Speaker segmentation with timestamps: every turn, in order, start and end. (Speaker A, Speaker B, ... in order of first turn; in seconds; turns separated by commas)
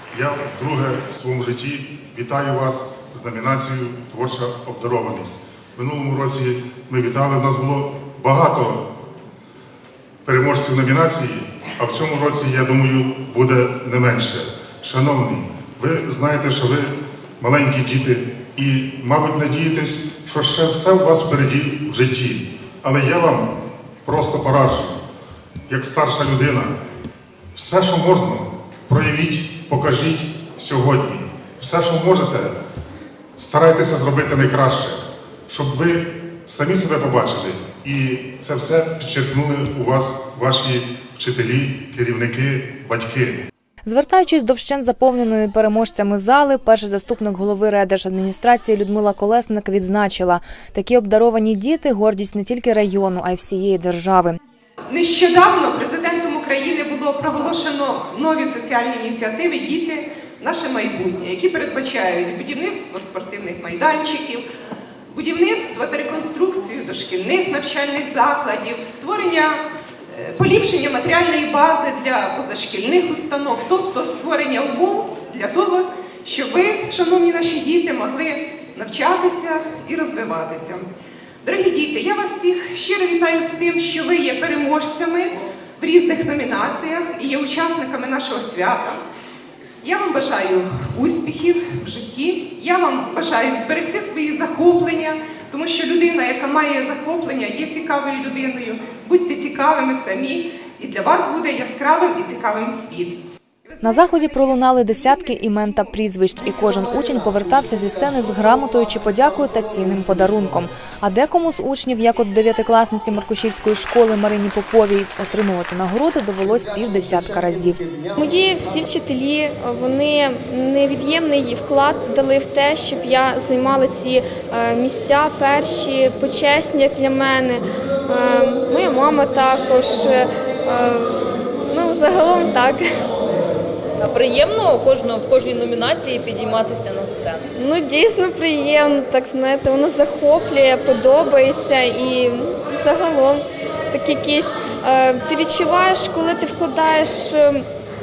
Speaker A: 0.1-8.8, Speaker A: 10.3-23.5, Speaker A: 24.1-24.9, Speaker A: 25.7-26.7, Speaker A: 27.6-32.5, Speaker A: 33.4-43.4, Speaker B: 43.9-54.4, Speaker C: 54.9-64.4, Speaker C: 65.1-80.8, Speaker C: 81.4-89.0, Speaker C: 89.8-105.7, Speaker B: 103.8-117.8, Speaker D: 118.2-132.8, Speaker E: 134.0-137.5, Speaker D: 137.6-147.6